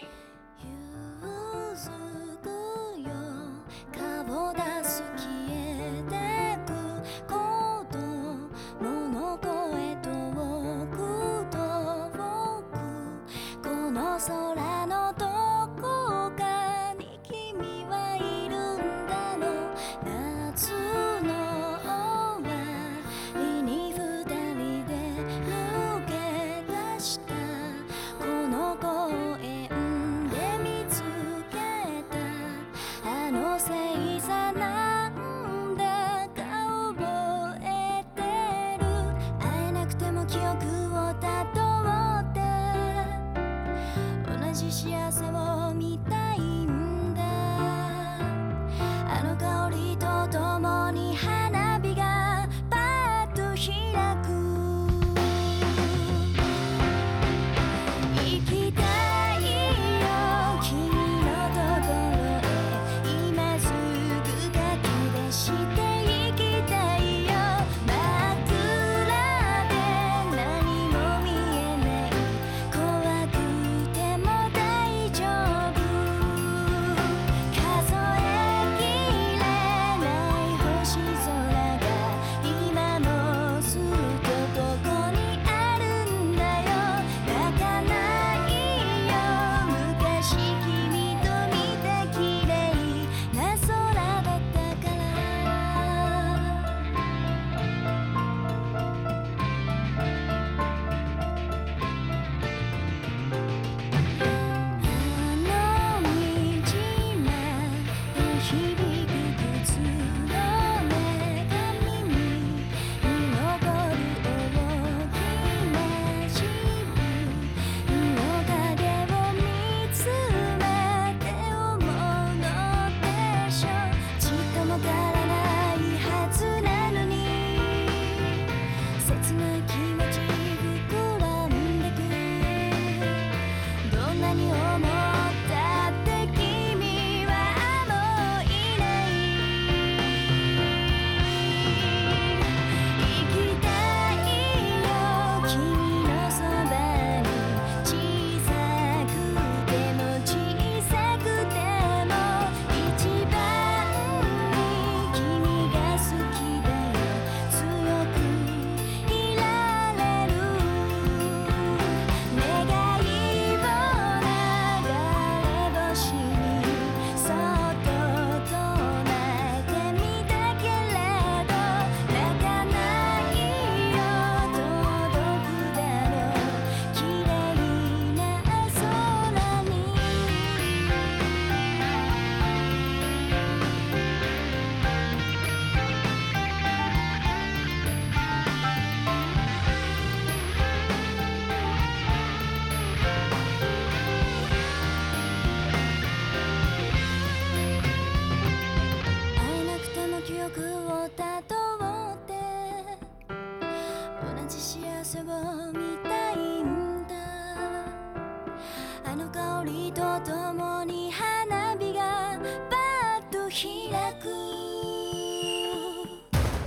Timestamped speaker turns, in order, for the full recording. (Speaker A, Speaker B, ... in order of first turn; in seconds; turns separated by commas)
Speaker A: 0.6-43.2, Speaker A: 44.2-48.4, Speaker A: 49.1-56.4, Speaker A: 58.1-96.7, Speaker A: 104.8-128.3, Speaker A: 129.0-133.2, Speaker A: 133.8-139.8, Speaker A: 141.2-180.9, Speaker A: 199.4-203.0, Speaker A: 204.2-208.0, Speaker A: 209.0-215.4